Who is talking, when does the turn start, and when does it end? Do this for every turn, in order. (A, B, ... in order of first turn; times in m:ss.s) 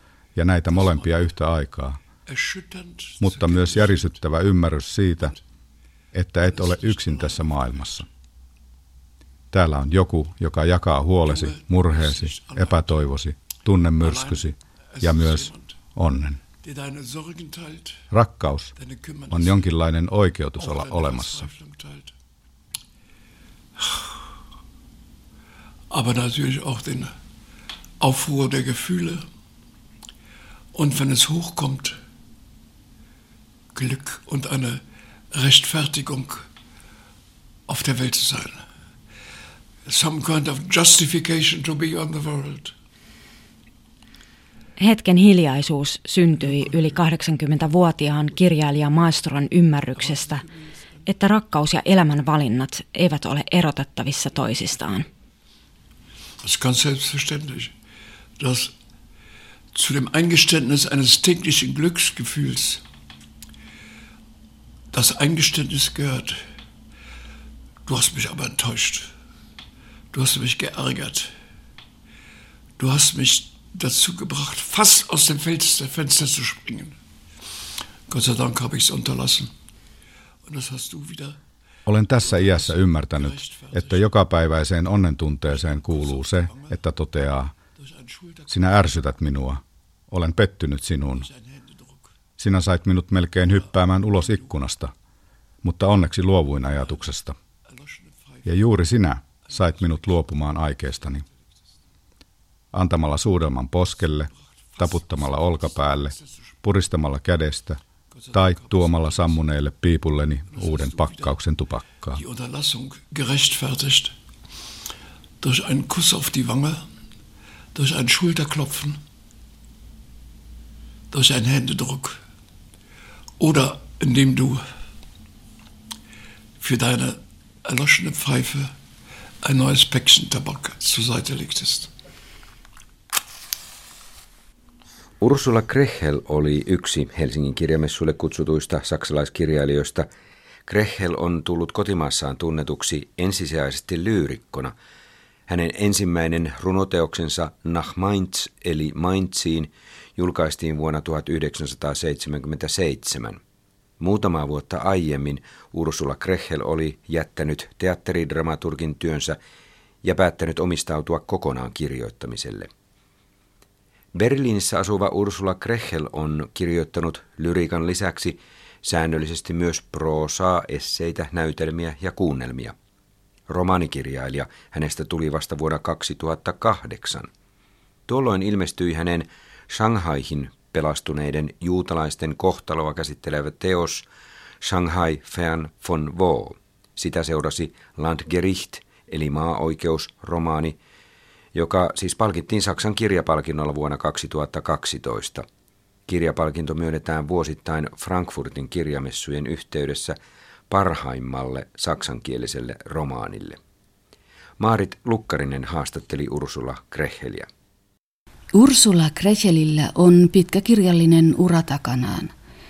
0:00.4-0:02.0 A
0:00.7-0:01.2 B
0:02.3-0:04.2 B
0:03.2-0:05.4 A
0:06.1-0:08.0 A
0:06.5-0:08.0 B
0:09.5-0:16.4 A
0:11.2-0:13.0 B
0:14.0-0:15.8 B
0:16.6-0:18.0 B
0:18.1-0:18.7 A
0:18.8-0:19.7 B
0:19.3-0:21.5 A
0:20.6-0:22.1 B
0:23.8-0:24.3 B
0:25.9-0:27.1 B
0:28.0-0:29.2 B
0:30.7-0:32.0 B
0:33.7-0:36.5 B
0:37.7-0:38.7 B
0:39.8-0:42.7 B
0:44.8-0:50.4 C
0:50.0-0:50.7 B
0:51.0-0:55.0 C
0:56.4-0:57.7 B
0:58.4-0:58.7 B
0:59.7-1:02.8 B
1:04.9-1:06.4 B
1:07.8-1:09.1 B
1:10.1-1:11.3 B
1:12.8-1:17.0 B
1:18.1-1:19.5 B
1:20.4-1:21.4 B
1:21.9-1:27.5 A
1:22.2-1:24.1 B
1:25.5-1:26.8 B
1:27.8-1:28.7 B
1:28.5-1:31.3 A
1:31.1-1:32.1 B
1:32.4-1:34.9 A
1:33.4-1:34.5 B
1:35.6-1:37.4 A
1:37.7-1:38.6 B
1:38.4-1:41.2 A
1:39.5-1:40.0 B
1:42.7-1:47.8 A
1:44.7-1:46.5 B
1:48.1-1:49.4 B
1:48.3-1:52.2 A
1:50.5-1:51.4 B
1:52.1-1:54.1 B
1:55.4-1:56.9 B
1:57.7-1:59.0 B
2:01.1-2:02.2 B
2:03.4-2:04.6 B
2:06.6-2:08.7 B
2:09.4-2:11.9 B
2:15.2-2:20.1 D
2:20.7-2:24.7 D
2:25.5-2:33.4 D
2:34.0-2:39.4 D
2:40.0-2:42.7 D
2:44.1-2:52.7 D
2:53.5-2:57.3 D
2:58.1-3:04.0 D
3:04.6-3:10.8 D
3:11.5-3:15.4 D
3:16.1-3:20.2 D
3:20.7-3:23.6 D
3:24.6-3:27.5 D
3:28.5-3:32.3 E